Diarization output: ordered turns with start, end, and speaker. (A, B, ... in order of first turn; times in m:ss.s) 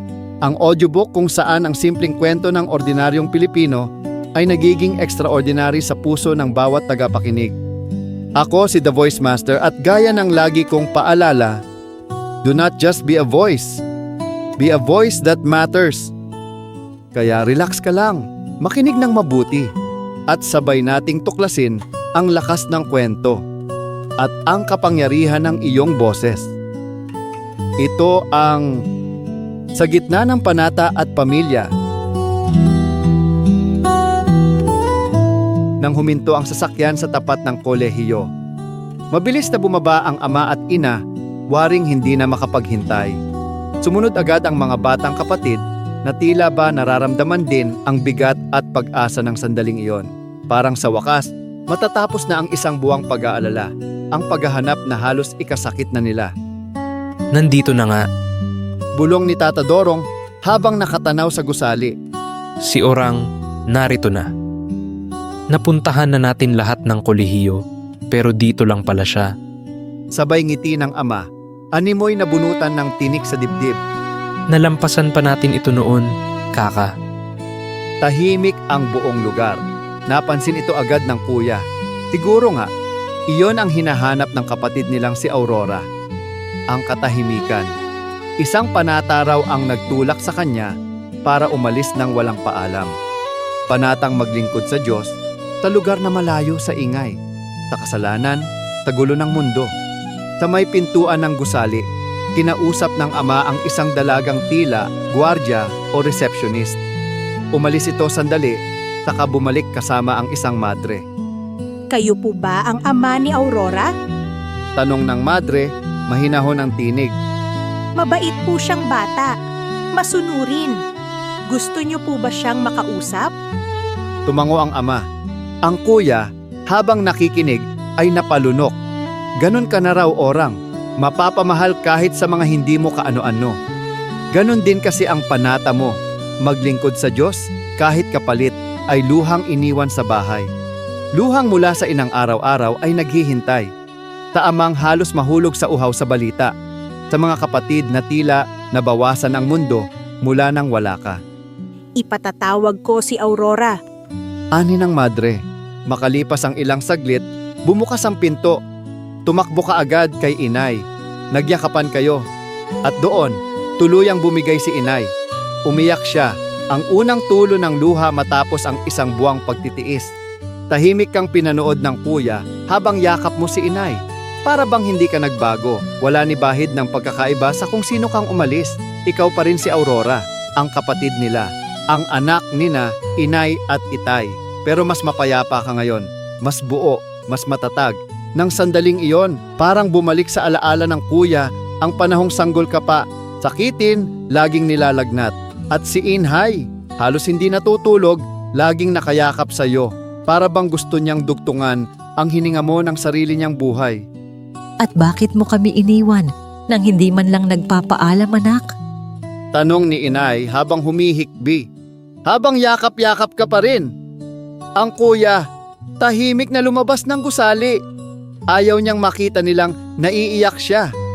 0:00.4-0:07.5 A
0:08.4-0:11.6 A
0:12.4-0:13.8 A
0:14.6-0:16.1 A
0:17.1-0:19.7 A
0:20.3-0:23.4 A
0:24.2-0:26.5 A
0:27.8-0:28.7 A
0:29.8-0:31.7 A
0:35.8-0:38.3 A
0:39.1-0:41.0 A
0:41.5-0:43.2 A
0:43.8-0:56.3 A
0:57.3-0:58.0 B
0:59.0-1:01.9 A
1:02.7-1:04.3 B
1:05.5-1:09.3 B
1:10.1-1:13.8 A
1:14.5-1:16.9 B
1:18.0-1:22.7 A
1:23.3-1:25.8 A
1:26.7-1:27.7 A
1:28.4-1:30.7 A
1:31.2-1:32.9 A
1:33.7-1:37.2 A
1:37.7-1:39.7 A
1:40.4-1:41.8 A
1:42.4-1:46.8 A
1:47.5-1:51.0 A
1:51.9-1:53.9 C
1:54.8-1:57.1 A
1:58.0-1:59.3 C
2:00.0-2:00.8 C
2:01.5-2:03.3 C
2:04.2-2:05.0 A
2:05.6-2:08.8 A
2:09.4-2:13.5 A
2:14.3-2:20.5 A
2:21.2-2:23.7 A
2:24.3-2:26.5 A
2:27.1-2:31.2 A
2:32.0-2:33.8 C
2:34.5-2:38.6 A
2:39.2-2:40.8 A
2:41.3-2:42.2 A
2:42.8-2:45.1 A
2:45.7-2:50.1 A
2:50.7-3:24.0 A
3:24.8-3:28.7 D
3:29.5-3:31.6 A
3:32.2-3:33.9 A
3:34.8-3:35.4 A
3:36.0-3:37.8 A
3:38.5-3:40.9 A